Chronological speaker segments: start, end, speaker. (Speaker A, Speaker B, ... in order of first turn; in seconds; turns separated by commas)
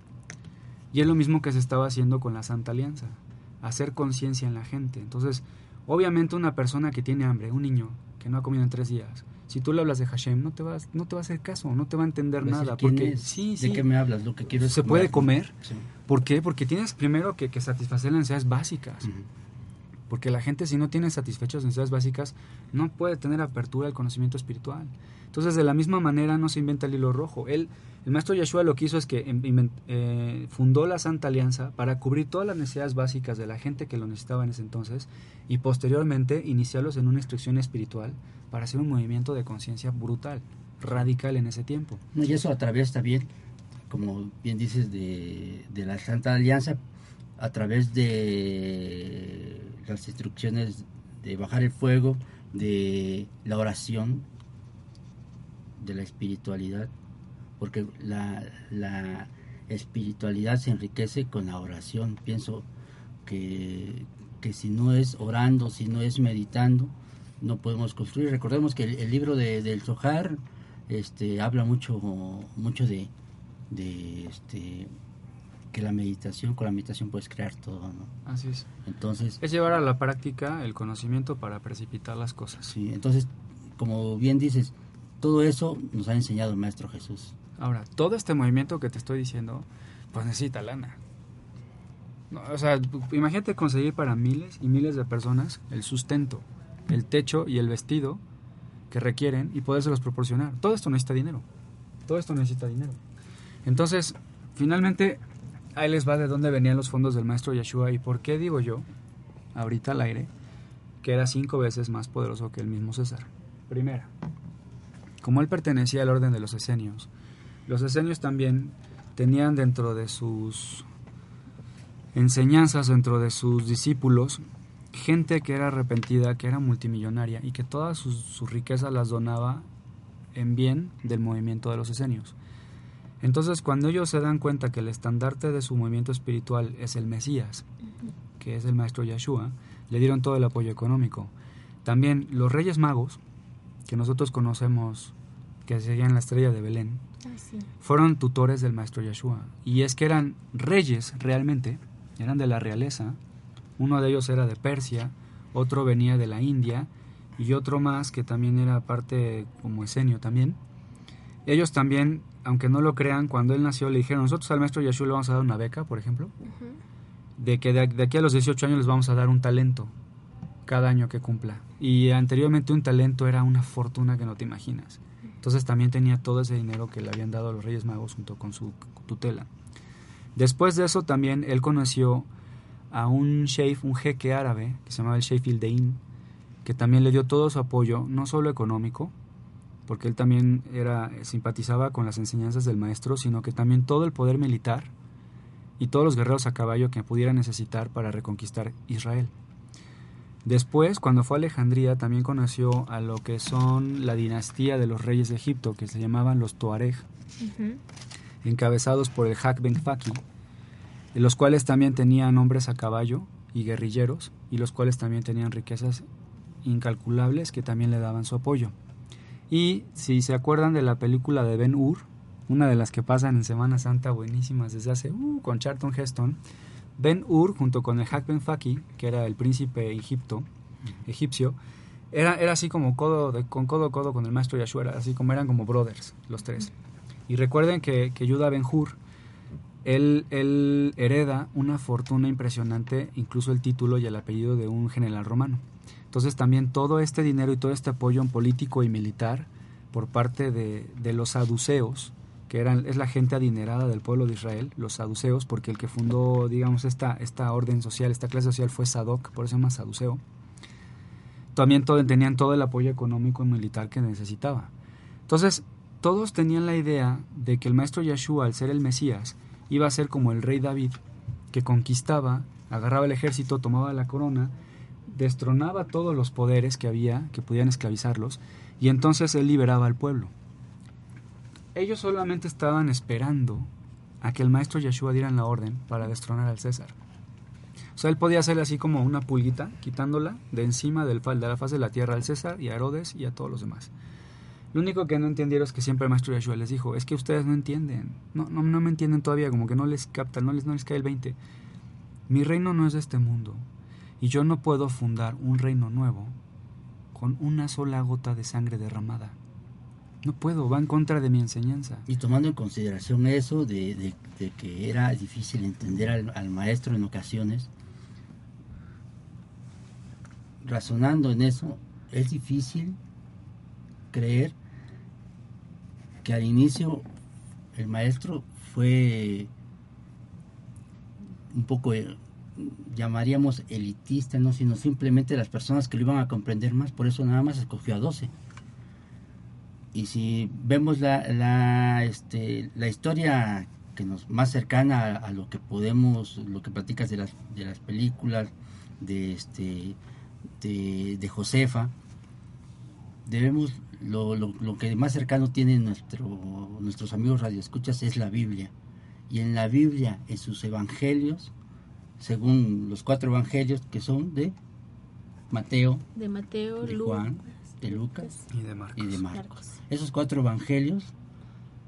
Speaker A: 0.9-13.8, Speaker B: 12.4-15.9, Speaker A: 14.6-15.5, Speaker A: 16.1-19.1, Speaker A: 20.1-42.0, Speaker B: 42.1-43.3, Speaker B: 43.9-46.8, Speaker B: 47.4-54.3, Speaker B: 55.8-56.9, Speaker B: 57.6-62.7, Speaker B: 63.2-73.1, Speaker B: 73.7-74.9, Speaker B: 75.7-78.1, Speaker A: 78.2-78.7, Speaker B: 78.8-79.4, Speaker A: 79.4-82.7, Speaker B: 82.6-87.3, Speaker A: 87.6-91.0, Speaker A: 92.3-98.2, Speaker A: 98.9-101.4, Speaker A: 102.1-103.0, Speaker A: 103.6-105.2, Speaker A: 105.7-108.8, Speaker A: 109.5-110.3, Speaker A: 111.0-114.1, Speaker A: 115.2-117.1, Speaker A: 117.7-120.9, Speaker A: 122.1-129.7, Speaker A: 130.3-132.3, Speaker A: 133.2-137.6, Speaker A: 138.4-141.3, Speaker A: 141.8-143.2, Speaker A: 143.8-145.1, Speaker A: 145.7-147.0, Speaker C: 147.2-147.7, Speaker A: 147.8-153.2, Speaker A: 153.8-160.6, Speaker A: 161.4-166.3, Speaker A: 167.4-169.9, Speaker A: 170.7-179.5, Speaker A: 180.3-182.3, Speaker A: 182.9-186.0, Speaker A: 186.6-189.1, Speaker A: 189.9-194.9, Speaker A: 195.8-199.3, Speaker A: 200.4-207.1, Speaker C: 207.4-207.8, Speaker A: 208.4-210.2, Speaker A: 211.1-216.0, Speaker A: 216.6-218.7, Speaker A: 219.5-226.4, Speaker A: 227.0-230.5, Speaker A: 231.0-231.6, Speaker A: 232.1-236.7, Speaker A: 237.3-239.0, Speaker A: 239.8-260.2, Speaker A: 261.5-264.7, Speaker A: 265.3-271.0, Speaker A: 271.5-274.5, Speaker A: 275.1-280.3, Speaker A: 281.7-283.7, Speaker A: 284.2-286.9, Speaker A: 287.9-293.9, Speaker A: 294.7-301.4, Speaker A: 302.3-303.6, Speaker A: 304.2-306.4, Speaker A: 307.1-309.4, Speaker A: 310.2-312.1, Speaker B: 312.1-317.7, Speaker B: 320.6-323.0, Speaker B: 324.1-324.6, Speaker B: 326.2-327.1, Speaker B: 327.7-329.5, Speaker B: 331.5-338.3, Speaker B: 339.9-350.0, Speaker B: 350.6-351.9, Speaker B: 353.2-358.7, Speaker B: 359.3-361.5, Speaker B: 362.2-364.6, Speaker B: 365.5-366.0, Speaker C: 366.1-368.4, Speaker B: 366.8-368.3, Speaker A: 368.5-369.2, Speaker B: 369.0-371.1, Speaker C: 369.3-369.7